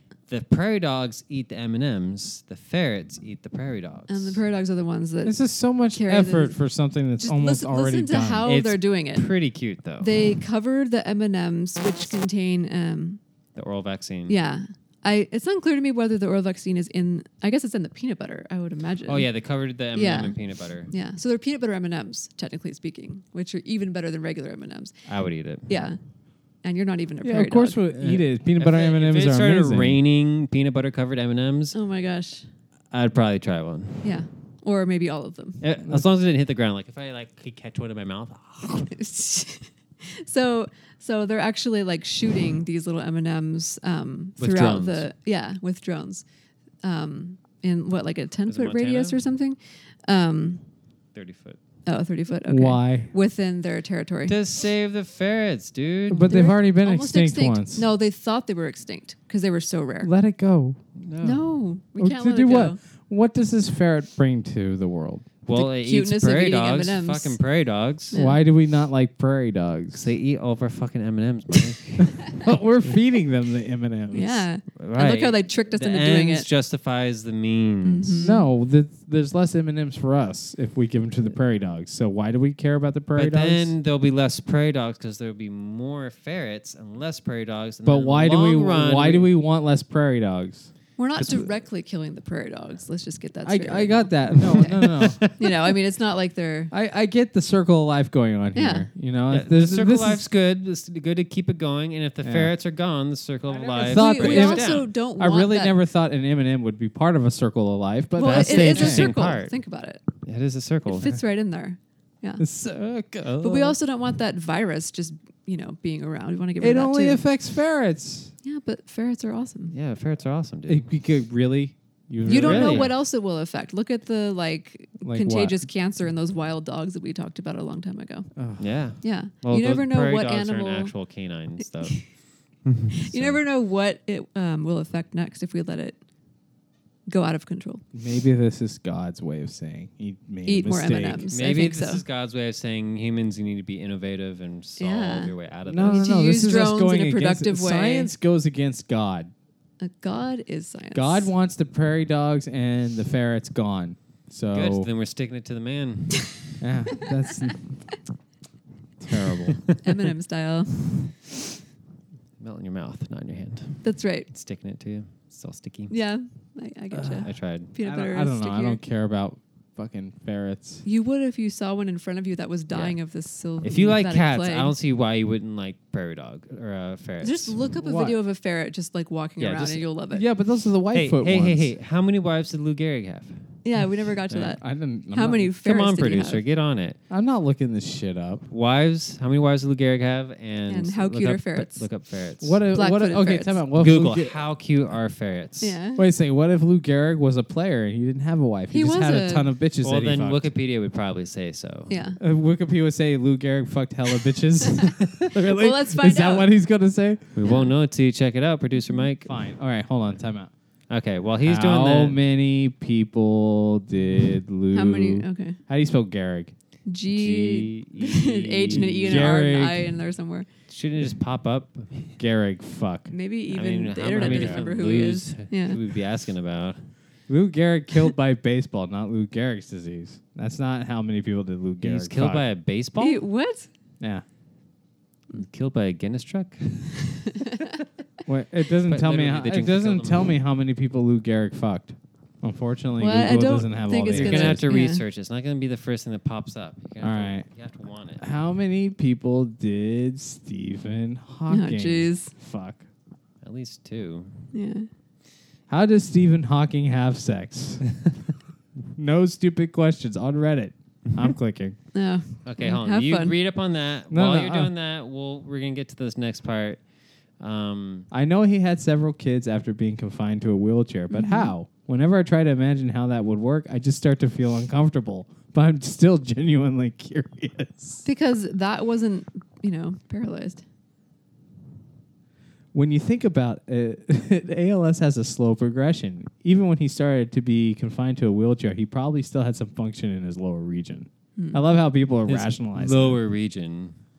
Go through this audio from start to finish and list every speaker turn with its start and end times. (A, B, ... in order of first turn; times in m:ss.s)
0:00.3-0:04.4 A
0:04.1-0:05.4 B
0:05.2-0:08.5 C
0:05.9-0:06.6 B
0:07.2-0:09.3 B
0:08.4-0:10.2 A
0:10.0-0:13.2 B
0:13.6-0:14.4 A
0:14.3-0:19.3 B
0:19.1-0:20.9 A
0:19.9-0:20.4 B
0:20.9-0:25.0 B
0:25.1-0:25.7 A
0:25.7-0:26.0 B
0:26.6-0:27.8 B
0:27.2-0:30.0 C
0:27.9-0:31.8 A
0:31.7-0:32.5 B
0:32.9-0:34.1 A
0:34.0-0:35.6 B
0:35.6-0:38.9 A
0:38.9-0:46.2 B
0:44.4-0:45.1 A
0:46.8-0:50.6 B
0:48.5-0:49.2 A
0:51.1-0:51.6 A
0:51.9-0:54.4 B
0:52.5-0:53.1 C
0:54.3-0:56.4 A
0:56.1-0:57.9 C
0:56.3-1:00.1 B
1:00.0-1:00.8 C
1:01.0-1:01.4 A
1:01.2-1:02.8 B
1:02.0-1:05.3 C
1:05.4-1:08.2 A
1:05.5-1:07.4 B
1:08.1-1:08.4 B
1:08.1-1:10.0 C
1:09.9-1:12.3 A
1:12.3-1:14.5 C
1:14.1-1:16.5 B
1:14.8-1:18.3 A
1:17.8-1:18.4 B
1:18.2-1:23.7 C
1:23.2-1:29.3 A
1:27.8-1:31.5 C
1:31.0-1:36.7 B
1:33.4-1:35.3 C
1:34.5-1:35.4 A
1:36.7-1:40.3 C
1:38.6-1:38.9 B
1:39.3-1:44.9 A
1:42.2-1:42.5 C
1:43.5-1:49.1 C
1:43.8-1:45.8 B
1:48.2-1:50.0 B
1:48.2-1:49.6 A
1:50.2-1:51.1 A
1:50.9-1:52.4 B
1:52.4-1:53.4 C
1:53.2-1:53.8 A
1:53.4-1:57.2 B
1:56.6-1:58.3 C
1:58.4-1:59.7 B
1:59.7-2:00.9 A
2:00.7-2:02.9 C
2:02.3-2:02.9 A
2:02.3-2:08.3 B
2:05.0-2:05.7 C
2:08.4-2:08.7 C
2:08.6-2:12.0 A
2:09.0-2:10.9 B
2:12.6-2:13.4 A
2:12.9-2:16.0 B
2:17.1-2:17.8 B
2:17.9-2:21.3 C
2:20.5-2:22.0 B
2:21.3-2:26.1 A
2:24.8-2:28.1 B
2:25.7-2:29.3 C
2:29.8-2:31.3 B
2:30.9-2:34.9 C
2:34.5-2:36.4 A
2:36.6-2:37.8 C
2:39.0-2:39.6 C
2:39.8-2:41.2 B
2:42.4-2:45.9 A
2:43.8-2:44.3 B
2:45.9-2:48.8 B
2:46.9-2:50.8 C
2:47.2-2:47.7 A
2:50.8-2:54.8 B
2:52.7-2:53.0 A
2:53.6-2:57.6 A
2:57.2-3:00.2 B
2:57.8-2:58.2 C
2:59.4-2:59.8 A
3:00.1-3:01.7 C
3:00.9-3:03.5 A
3:03.6-3:06.4 B
3:04.3-3:04.6 A
3:04.6-3:05.5 C
3:05.6-3:07.0 A
3:07.1-3:08.5 C
3:08.5-3:12.6 A
3:10.7-3:11.9 B
3:12.4-3:14.4 C
3:12.7-3:13.6 B
3:13.8-3:15.8 A
3:15.6-3:16.0 B
3:16.0-3:20.5 C
3:18.7-3:19.5 B
3:19.8-3:22.0 A
3:21.9-3:22.2 B
3:22.2-3:27.2 C
3:25.4-3:26.5 B
3:27.4-3:29.5 A
3:29.3-3:30.5 C
3:30.9-3:32.2 A
3:31.4-3:36.5 C
3:34.7-3:35.6 B
3:36.9-3:40.5 B
3:37.1-3:39.4 A
3:38.7-3:39.9 C
3:40.7-3:42.2 A
3:42.2-3:43.1 C
3:43.1-3:45.8 B
3:43.5-3:46.8 A
3:44.2-3:44.7 C
3:47.3-3:52.4 C
3:51.8-3:53.2 A
3:53.0-3:53.7 B
3:55.3-3:57.6 A
3:58.3-4:04.7 C
3:58.8-4:00.3 A
4:03.0-4:05.0 B
4:04.1-4:08.2 A
4:07.0-4:07.5 C
4:08.2-4:12.8 C
4:11.5-4:12.3 B
4:13.4-4:14.5 A
4:14.5-4:14.9 B
4:15.7-4:17.8 C
4:19.0-4:21.8 C
4:21.9-4:23.4 B
4:22.4-4:26.8 A
4:24.1-4:24.7 C
4:27.4-4:28.1 A
4:28.1-4:38.0 C
4:31.1-4:31.5 B
4:38.0-4:40.6 B
4:42.7-4:53.2 C
4:51.4-4:51.6 B
4:52.3-4:54.0 A